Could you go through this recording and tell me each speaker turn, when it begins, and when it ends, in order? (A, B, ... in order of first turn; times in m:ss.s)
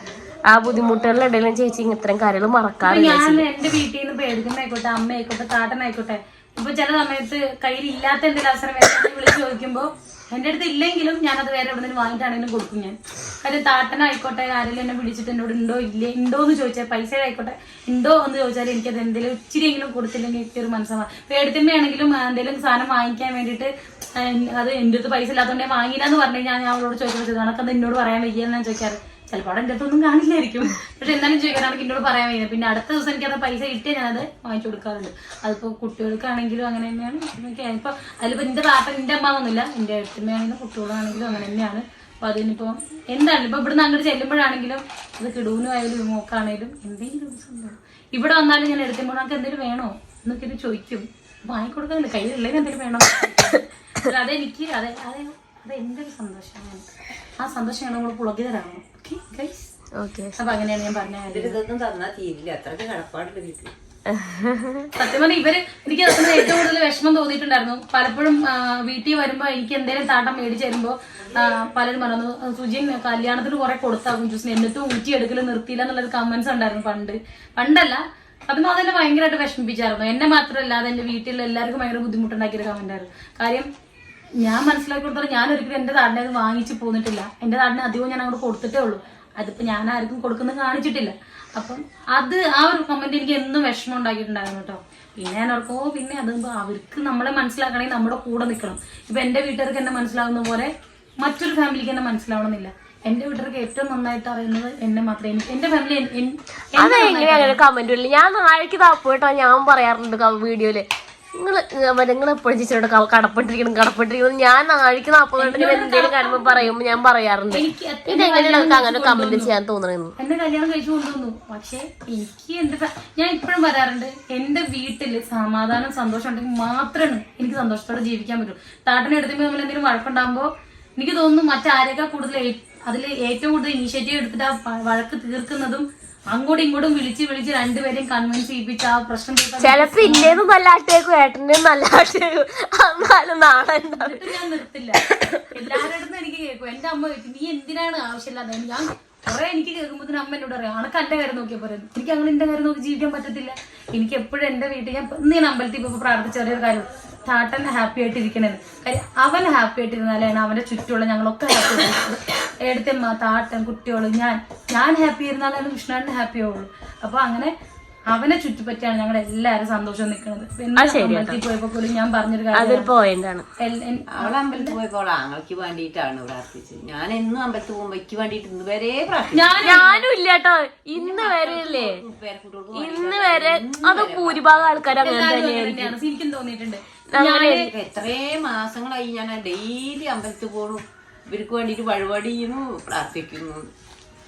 0:00.5-0:03.5 A
0:02.8-0:56.8 B
0:57.4-0:59.6 B
1:00.0-1:00.4 A
1:00.4-1:01.6 B
1:01.3-1:03.7 C
1:04.1-1:04.9 A
1:05.0-1:23.7 B
1:24.4-1:40.7 B
1:41.2-1:47.6 B
1:46.8-2:00.1 A
1:55.4-1:56.7 B
1:57.5-1:59.5 B
2:00.2-2:20.4 B
2:19.6-2:24.2 A
2:24.0-2:25.0 B
2:25.2-2:25.5 A
2:25.5-2:47.5 B
2:48.1-2:52.9 B
2:50.8-2:51.4 A
2:52.5-2:53.4 A
2:53.6-2:54.8 B
2:54.1-2:59.8 C
2:59.3-3:00.1 B
2:59.6-3:02.0 A
3:00.9-3:05.2 C
3:02.7-3:05.9 A
3:05.0-3:07.7 B
3:07.1-3:07.7 A
3:07.7-3:13.6 C